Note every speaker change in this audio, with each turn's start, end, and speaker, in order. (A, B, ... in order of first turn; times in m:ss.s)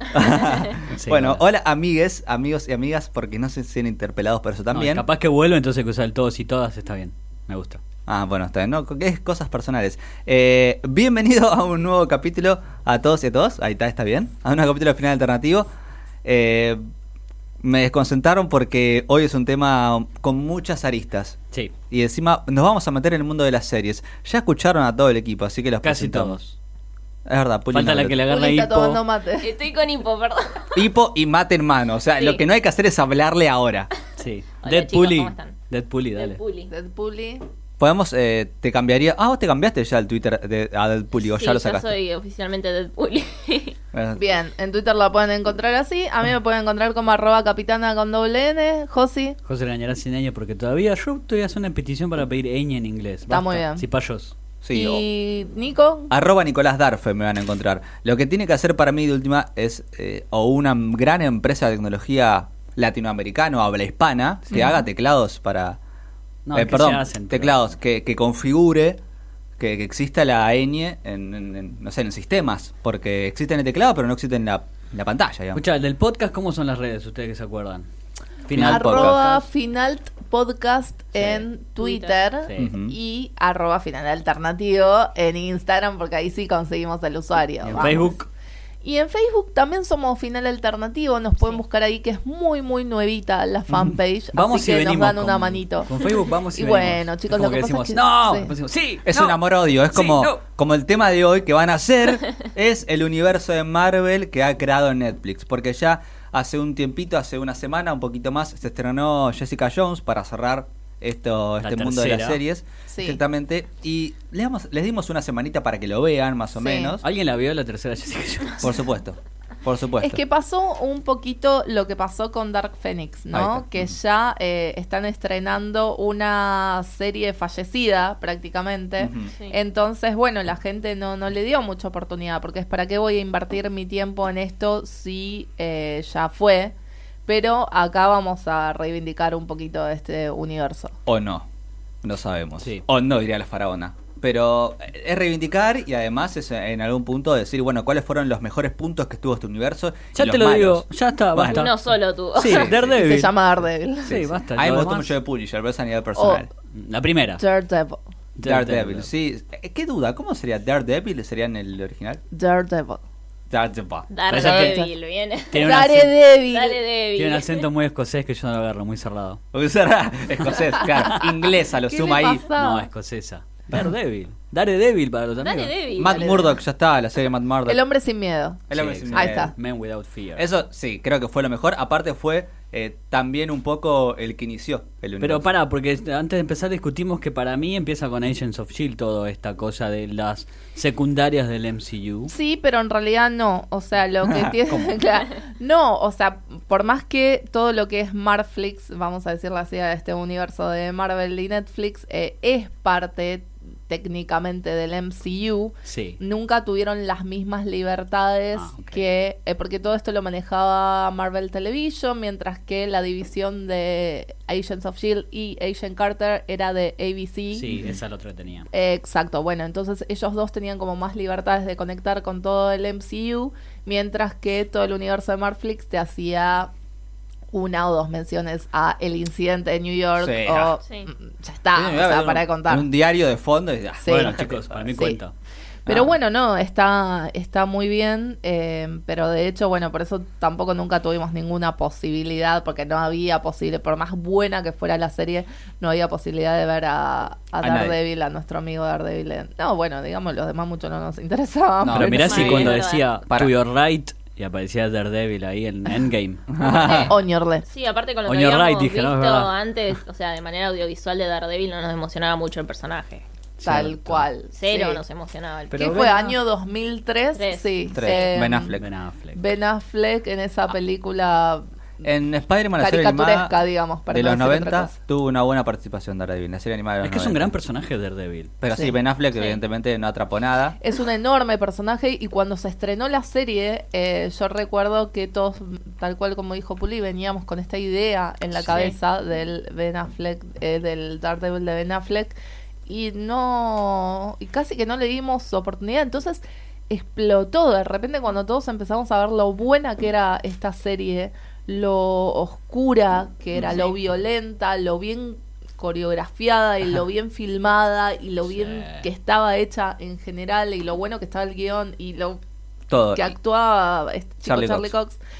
0:00.1-0:05.0 A
0:00.8-0:01.4 B
0:04.7-0:07.8 B
0:08.1-0:15.7 A
0:16.2-0:16.8 A
0:17.6-0:21.4 A
0:21.9-0:26.4 A
0:25.8-0:26.6 B
0:27.2-0:28.2 A
0:27.7-0:29.0 B
0:28.3-0:29.6 C
0:29.4-0:30.8 D
0:30.7-0:33.9 A
0:34.2-0:36.4 B
0:34.6-0:35.6 D
0:36.2-0:36.7 D
0:36.7-0:37.4 C
0:37.8-0:41.9 A
0:41.2-0:43.8 D
0:43.9-0:44.2 A
0:44.2-0:49.4 C
0:49.4-0:54.3 B
0:53.3-0:53.8 C
0:54.6-0:55.0 A
0:54.7-0:56.1 C
0:56.1-1:05.8 A
1:06.4-1:07.7 B
1:06.5-1:09.0 A
1:09.6-1:15.6 A
1:15.5-1:17.9 B
1:18.4-1:19.4 B
1:18.5-1:19.2 A
1:18.5-1:28.2 C
1:21.1-1:21.4 B
1:21.8-1:22.2 D
1:22.4-1:22.7 B
1:22.6-1:22.9 A
1:27.6-1:28.3 B
1:28.8-1:36.0 C
1:33.7-1:34.0 A
1:34.3-1:40.4 B
1:36.5-1:38.5 C
1:39.0-1:57.0 A
1:51.6-1:52.4 B
1:52.9-1:53.2 C
1:56.6-1:57.0 C
1:57.0-1:58.8 B
1:58.6-2:00.2 A
2:00.0-2:16.7 C
2:03.3-2:03.9 A
2:09.0-2:09.3 A
2:09.3-2:09.6 D
2:17.3-2:20.9 C
2:21.0-2:21.5 A
2:22.0-2:31.7 A
2:30.1-2:33.3 B
2:31.4-2:32.7 D
2:32.4-2:33.0 A
2:32.9-2:34.1 C
2:34.0-2:35.1 B
2:34.0-2:36.5 A
2:36.2-2:36.5 C
2:36.7-2:37.4 B
2:37.4-2:38.0 C
2:38.4-2:39.1 B
2:38.4-2:42.2 A
2:42.3-2:43.0 C
2:43.5-2:44.1 A
2:44.1-2:45.8 D
2:44.3-2:44.8 B
2:44.3-2:44.9 C
2:45.5-2:46.2 B
2:45.6-2:46.8 C
2:46.5-2:47.7 D
2:47.2-2:49.4 B
2:49.5-2:52.4 A
2:51.7-2:52.9 C
2:52.5-2:55.7 B
2:55.4-2:56.5 D
2:56.0-2:57.8 A
2:56.1-2:56.5 C
2:57.6-2:59.5 C
2:58.7-2:59.5 A
2:58.7-3:00.5 B
3:00.4-3:05.4 A
3:05.2-3:12.3 B
3:12.3-3:37.7 C
3:14.2-3:14.5 A
3:14.7-3:15.0 B
3:25.8-3:26.2 B
3:28.5-3:29.0 B
3:37.5-3:38.7 B
3:37.7-3:37.9 A
3:38.7-3:46.7 C
3:47.5-3:52.8 C
3:50.2-3:50.8 A
3:51.7-3:54.9 A
3:54.0-3:54.4 C
3:54.1-3:55.3 B
3:55.8-3:56.1 A
3:55.8-4:12.6 C
4:07.6-4:08.0 A
4:11.8-4:13.5 A
4:11.9-4:16.5 B
4:12.2-4:13.1 D
4:16.5-4:17.2 A
4:16.6-4:23.2 D
4:16.9-4:17.6 C
4:18.2-4:19.5 B
4:23.6-4:24.3 B
4:23.6-4:25.0 C
4:24.5-4:26.1 D
4:25.7-4:26.4 B
4:25.8-4:28.7 C
4:27.3-4:28.3 D
4:27.9-4:28.9 A
4:28.7-4:29.4 B
4:29.3-4:31.6 C
4:32.0-4:33.5 A
4:32.8-4:35.0 C
4:34.1-4:37.5 A
4:37.0-4:38.5 B
4:38.6-4:40.8 A
4:38.7-4:39.0 C
4:39.3-4:39.6 D
4:40.8-4:52.3 C
4:48.7-4:48.9 D
4:52.9-5:12.4 C
5:08.4-5:09.0 B
5:12.9-5:13.3 A
5:13.1-5:15.2 C
5:14.4-5:14.9 A